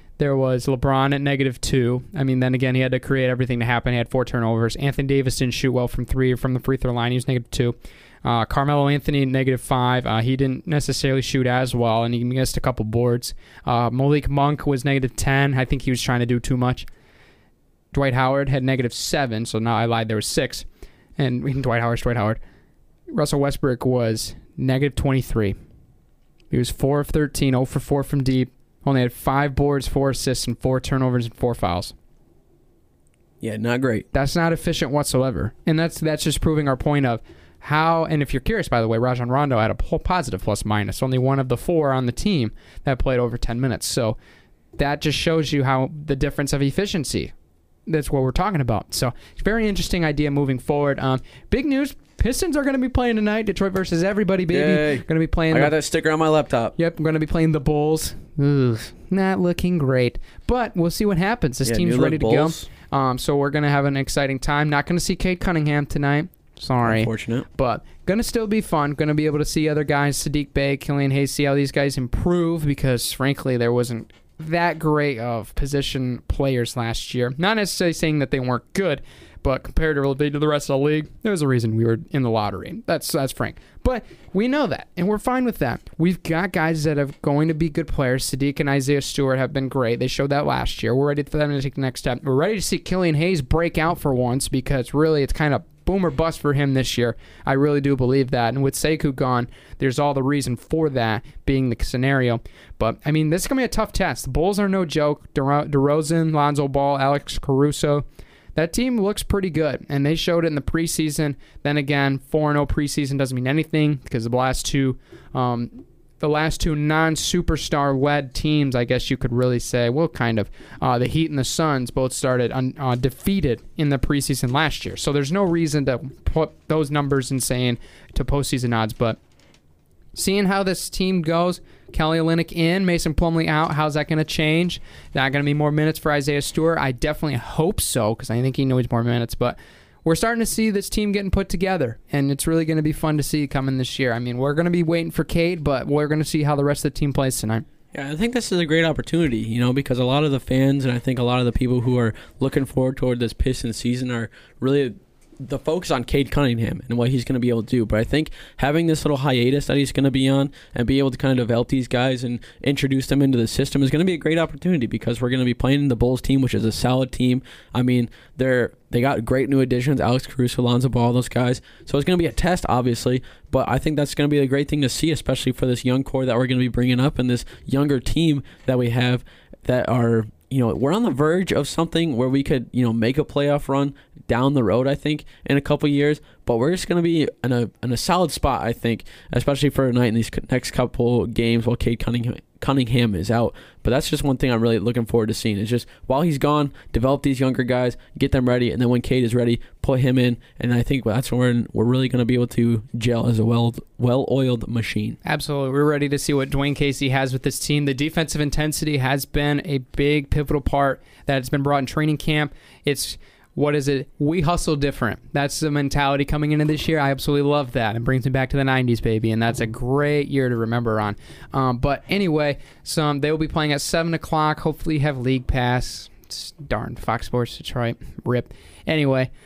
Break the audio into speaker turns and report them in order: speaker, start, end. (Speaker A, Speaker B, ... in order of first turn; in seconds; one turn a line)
Speaker A: 0.2-16.9
Speaker A: 17.9-20.6
Speaker A: 21.2-22.4
Speaker A: 23.1-25.6
Speaker A: 26.5-31.9
Speaker B: 33.4-34.0
Speaker A: 34.1-44.2
Speaker A: 44.8-47.3
Speaker A: 47.9-55.7
Speaker B: 54.5-56.8
Speaker A: 56.8-129.2
Speaker B: 61.6-62.7
Speaker B: 66.8-67.5
Speaker A: 130.1-147.6
Speaker B: 147.9-205.2
Speaker A: 205.2-229.3